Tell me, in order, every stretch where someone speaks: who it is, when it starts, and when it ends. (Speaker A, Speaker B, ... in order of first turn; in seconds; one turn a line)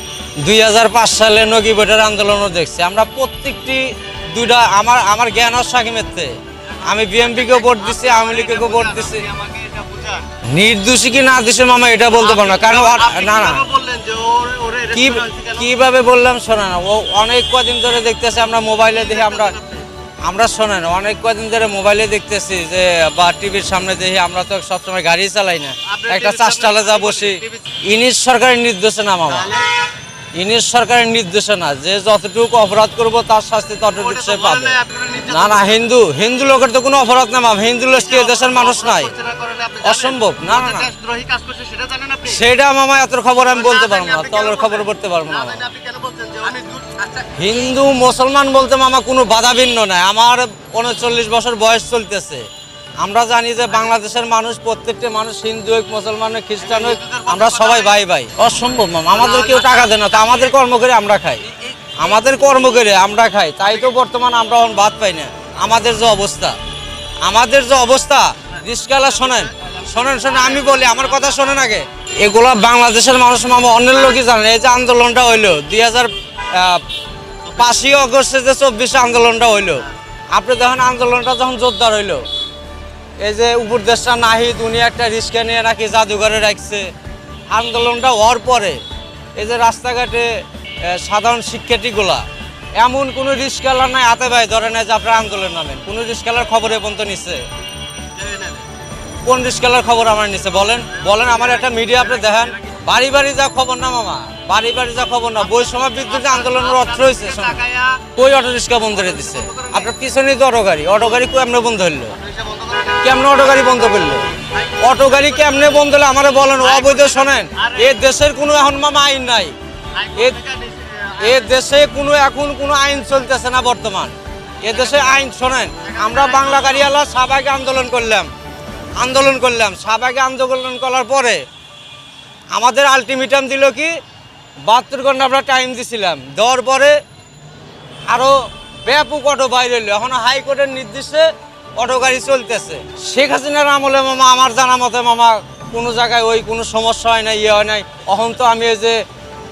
Speaker A: 0.4-9.3
Speaker B: 6.9-10.3
Speaker A: 10.5-13.7
Speaker B: 12.2-15.7
Speaker A: 14.9-19.6
Speaker B: 18.9-19.9
Speaker A: 20.3-29.5
Speaker B: 25.9-27.6
Speaker B: 29.3-29.6
Speaker A: 30.4-39.1
Speaker B: 34.0-35.8
Speaker B: 38.0-42.4
Speaker A: 39.8-40.9
Speaker A: 42.2-45.7
Speaker B: 43.5-47.2
Speaker A: 47.3-52.5
Speaker A: 53.0-61.5
Speaker B: 56.6-58.0
Speaker B: 59.1-60.4
Speaker A: 62.0-66.6
Speaker A: 67.2-76.8
Speaker B: 69.0-71.5
Speaker A: 77.5-82.2
Speaker A: 83.2-86.9
Speaker A: 87.5-88.8
Speaker A: 89.4-90.3
Speaker A: 90.9-92.2
Speaker A: 92.8-97.4
Speaker B: 98.2-98.7
Speaker A: 99.2-107.6
Speaker B: 100.9-102.6
Speaker B: 105.5-108.0
Speaker A: 108.2-112.2
Speaker B: 109.0-109.9
Speaker B: 112.1-115.7
Speaker A: 113.0-119.5
Speaker B: 116.6-118.0
Speaker B: 120.0-121.5
Speaker A: 121.2-128.3
Speaker B: 124.7-125.1
Speaker B: 125.8-126.9
Speaker A: 129.0-131.4
Speaker A: 132.5-133.9
Speaker A: 134.7-137.0
Speaker A: 138.1-149.0